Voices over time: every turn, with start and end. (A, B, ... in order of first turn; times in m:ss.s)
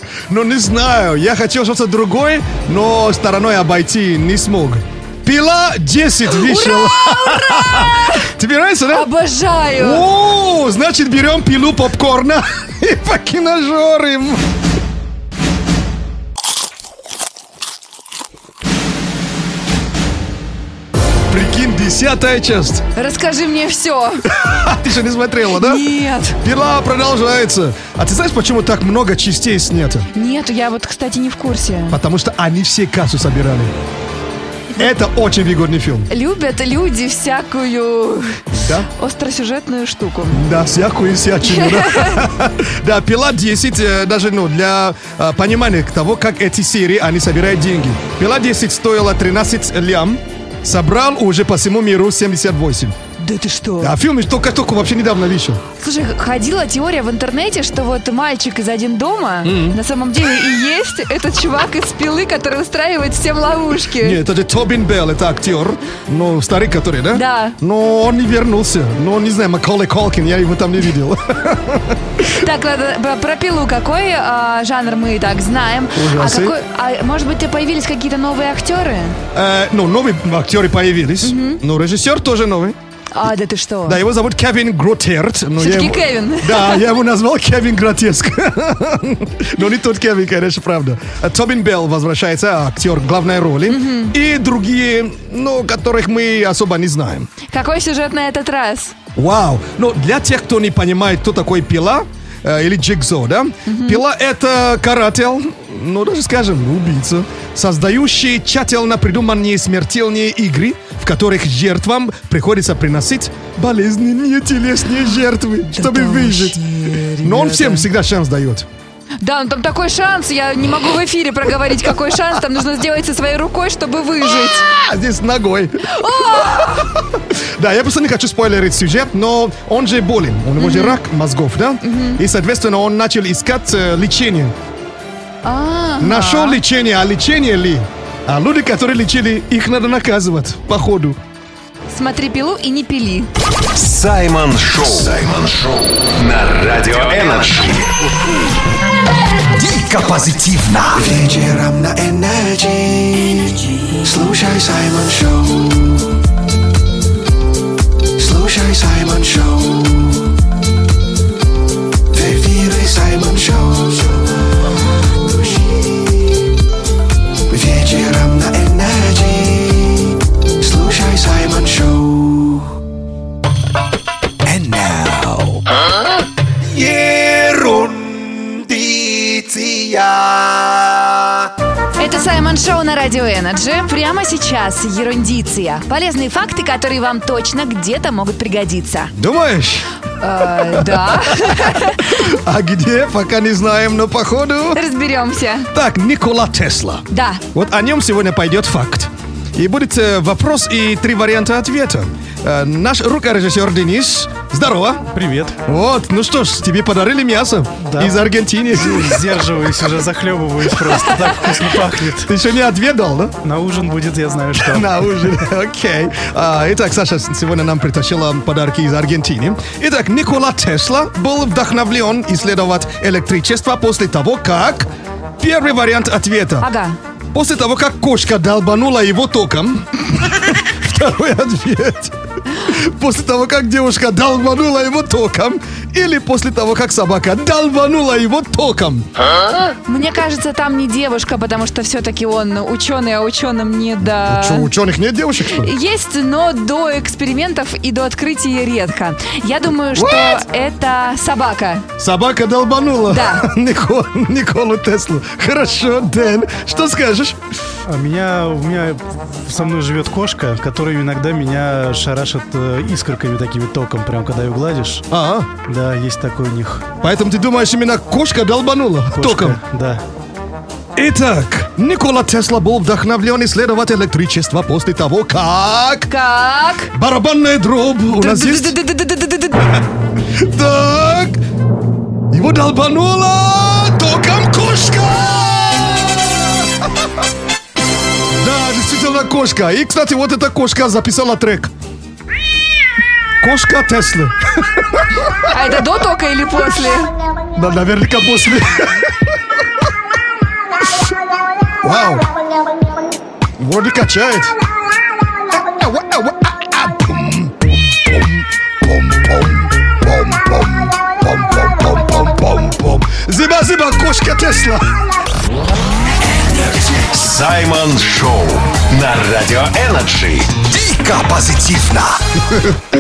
0:00.3-0:09.1 A
0:06.3-0:08.2 B
0:08.9-0:10.0 B
0:09.8-0:14.4 A
0:21.3-0:22.8 A
0:23.0-0:24.2 B
0:24.3-0:25.9 A
0:25.6-0:26.4 B
0:26.4-0:30.1 A
0:30.1-0:32.0 B
0:31.9-0:33.7 A
0:34.8-0:36.1 A
0:36.1-0:40.4 B
0:40.3-0:53.0 A
0:41.4-0:42.2 B
0:53.2-0:54.0 B
0:53.8-0:55.6 A
0:55.8-1:04.2 B
0:59.4-0:59.8 A
1:04.0-1:12.3 A
1:07.1-1:07.6 B
1:12.3-1:19.2 B
1:15.9-1:16.6 A
1:19.3-1:22.8 A
1:21.2-1:21.6 B
1:23.1-1:24.0 B
1:23.9-1:37.3 A
1:25.6-1:26.9 B
1:33.7-1:34.1 B
1:37.5-1:38.9 B
1:39.2-1:58.7 A
1:43.7-1:44.0 B
1:55.7-1:57.9 B
1:59.2-2:04.6 B
2:04.6-2:05.9 A
2:05.8-2:07.0 B
2:06.4-2:14.5 A
2:10.6-2:11.0 B
2:11.8-2:12.2 B
2:15.4-2:16.6 B
2:16.0-2:21.2 A
2:21.9-2:23.3 B
2:23.8-2:28.0 C
2:29.5-2:36.0 D
2:38.2-2:40.2 D
2:42.1-2:44.2 D
2:45.2-2:46.3 D
2:47.5-2:52.7 D
2:54.4-2:55.6 D
2:56.7-3:01.2 D
3:02.0-3:09.1 B
3:09.2-3:09.9 A
3:10.2-3:12.1 B
3:10.5-3:14.8 A
3:14.7-3:15.7 B
3:15.7-3:25.0 A
3:17.1-3:17.4 B
3:25.1-3:25.6 E
3:25.6-3:29.4 A
3:27.8-3:32.3 E
3:32.3-3:33.4 A
3:33.4-3:35.4 E
3:34.6-3:44.9 A
3:45.4-3:46.7 A
3:46.6-3:47.0 B
3:47.3-3:52.2 A
3:52.7-3:59.1 A
3:59.9-4:04.7 B
4:04.1-4:05.7 A
4:05.5-4:11.8 B
4:09.9-4:10.4 A
4:12.0-4:17.4 A
4:13.1-4:13.5 B
4:17.9-4:25.0 E
4:25.1-4:25.5 A
4:25.7-4:26.9 E
4:27.0-4:29.6 A
4:29.1-4:30.0 E
4:31.0-4:36.1 A
4:36.1-4:36.9 B
4:36.9-4:38.8 A
4:38.2-4:39.8 B
4:40.3-4:41.4 A
4:42.3-4:47.1 A
4:48.4-4:51.7 A
4:53.4-4:55.3 A
4:55.5-4:57.1 B
4:57.6-4:59.1 A
5:01.8-5:02.2 A
5:03.6-5:04.6 A
5:05.5-5:15.0 A
5:17.1-5:20.6 C
5:20.6-5:22.2 D